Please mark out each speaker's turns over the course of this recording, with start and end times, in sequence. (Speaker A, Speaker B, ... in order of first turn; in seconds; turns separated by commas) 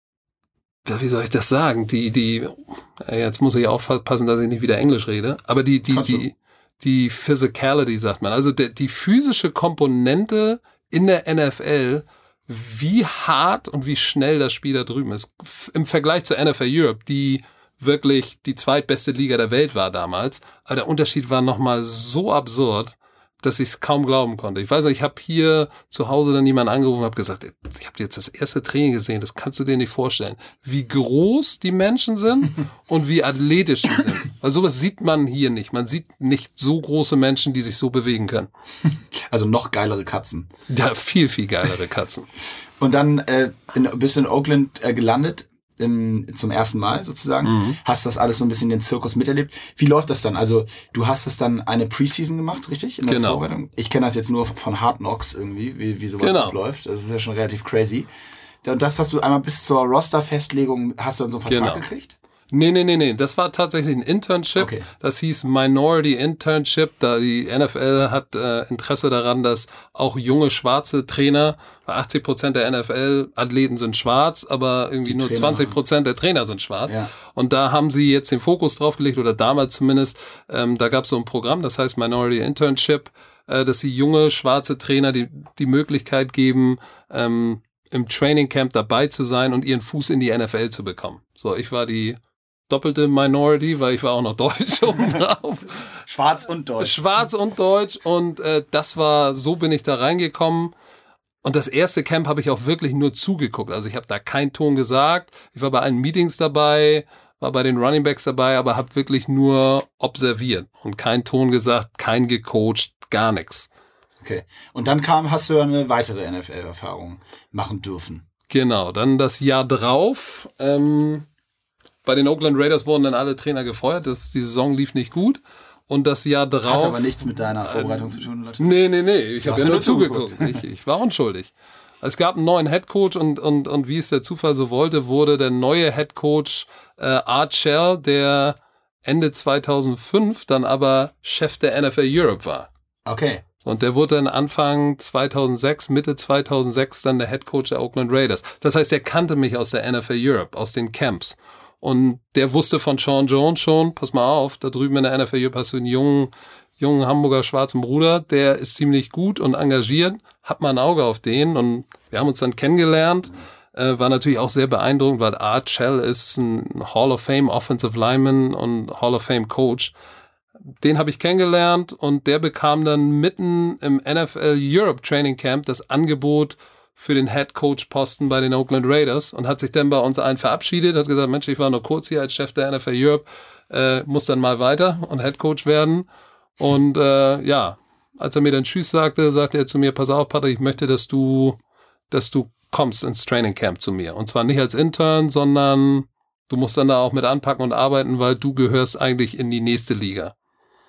Speaker A: 0.8-38.5, Speaker B: 5.9-6.2, Speaker B: 38.9-40.5, Speaker A: 40.7-42.3, Speaker B: 42.8-58.1, Speaker A: 47.4-47.8, Speaker A: 53.1-53.4, Speaker A: 56.2-56.5, Speaker B: 58.6-62.1, Speaker A: 61.5-61.8, Speaker A: 62.5-95.9, Speaker B: 64.6-64.8, Speaker B: 75.1-75.7, Speaker B: 76.8-77.1, Speaker B: 96.1-97.0, Speaker A: 96.8-100.7, Speaker A: 101.4-113.7, Speaker B: 114.2-118.2, Speaker A: 118.5-121.3, Speaker A: 122.0-142.7, Speaker B: 126.7-128.8, Speaker B: 129.4-130.6, Speaker B: 143.1-143.4, Speaker A: 143.6-169.9, Speaker A: 170.8-186.1, Speaker A: 186.6-191.6, Speaker A: 192.1-200.3